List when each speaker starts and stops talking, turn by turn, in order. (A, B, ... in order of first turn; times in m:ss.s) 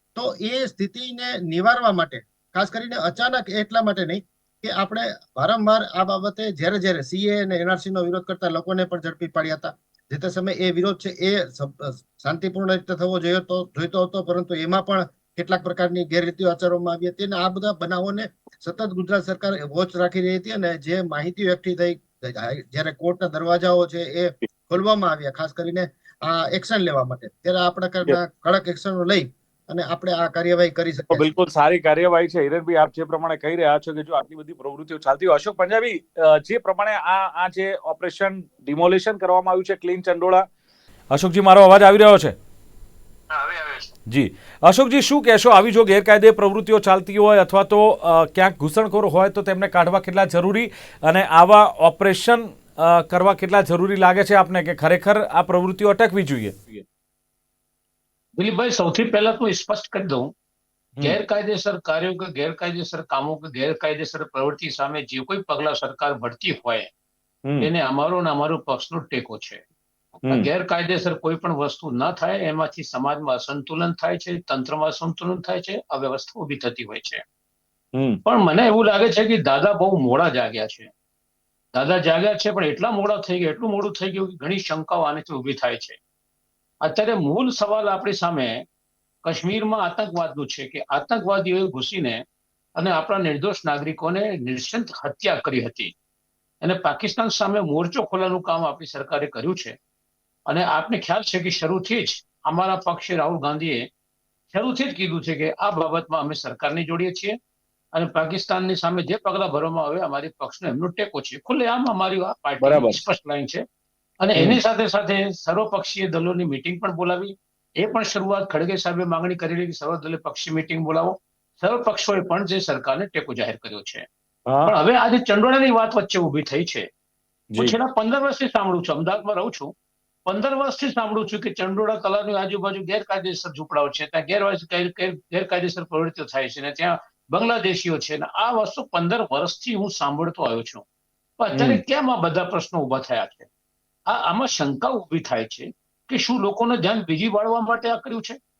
0:00.1-0:31.3 A
0:31.1-0:40.5 B
0:41.1-0:42.3 B
0:43.3-0:43.9 C
0:44.1-0:56.8 B
0:58.4-1:00.3 C
1:01.0-1:06.9 C
1:07.6-1:09.6 C
1:10.3-1:17.2 C
1:18.2-1:20.9 C
1:21.7-1:26.0 C
1:26.8-1:28.6 C
1:29.2-1:32.2 C
1:32.8-1:35.9 C
1:36.6-1:39.8 C
1:40.5-1:43.9 C
1:44.5-1:47.4 C
1:47.9-1:53.6 C
1:52.6-1:53.0 B
1:54.2-2:04.0 C
2:04.6-2:06.9 C
2:07.6-2:09.7 C
2:10.3-2:20.8 C
2:21.4-2:23.5 C
2:21.5-2:21.8 B
2:24.1-2:28.4 C